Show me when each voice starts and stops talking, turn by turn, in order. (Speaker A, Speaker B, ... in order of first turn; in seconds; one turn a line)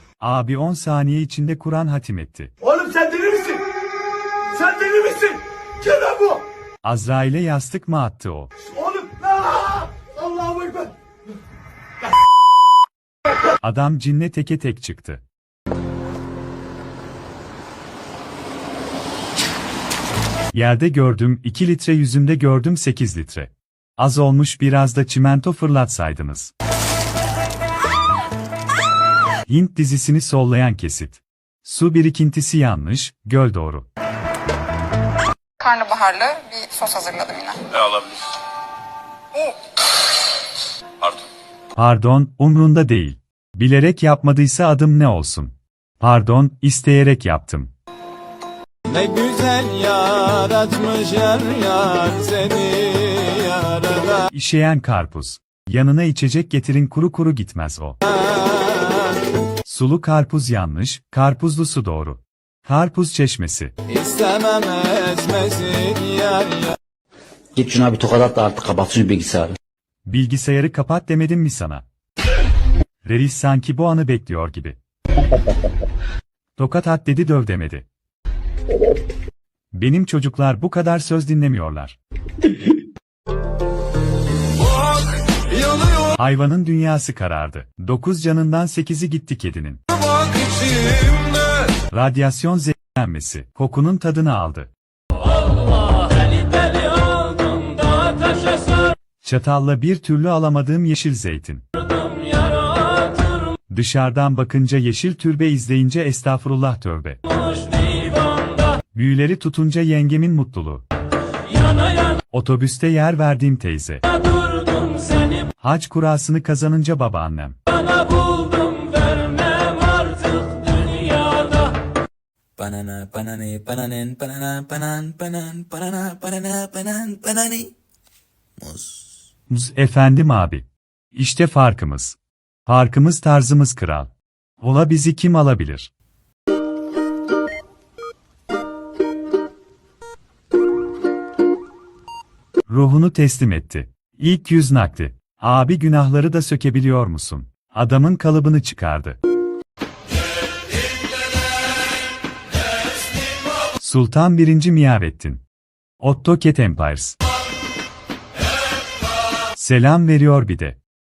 Speaker A: 0.2-2.5
Speaker B: 2.6-3.6
Speaker B: 4.5-6.4
Speaker A: 6.8-8.5
Speaker B: 8.7-10.9
Speaker A: 13.6-15.2
Speaker A: 20.5-26.5
Speaker A: 29.5-33.9
Speaker C: 35.6-37.8
Speaker A: 41.8-47.7
Speaker D: 48.9-54.2
Speaker A: 54.3-58.0
Speaker D: 58.3-59.1
Speaker A: 59.6-63.7
Speaker D: 63.9-66.8
Speaker E: 67.6-69.5
Speaker A: 70.0-71.8
Speaker A: 73.0-74.8
Speaker A: 76.6-77.9
Speaker A: 79.7-82.0
Speaker D: 85.6-85.9
Speaker A: 86.2-89.8
Speaker D: 90.2-91.5
Speaker A: 91.9-94.7
Speaker D: 95.5-98.9
Speaker A: 99.2-101.7
Speaker D: 101.9-103.4
Speaker A: 103.7-107.2
Speaker D: 107.4-108.6
Speaker A: 108.9-110.8
Speaker A: 112.3-114.0
Speaker D: 114.5-115.3
Speaker A: 115.6-117.6
Speaker D: 117.9-121.8
Speaker F: 122.6-127.7
Speaker F: 128.6-129.0
Speaker A: 129.5-135.9
Speaker A: 142.7-149.2
Speaker A: 153.8-155.4
Speaker A: 156.0-157.2
Speaker A: 159.5-160.8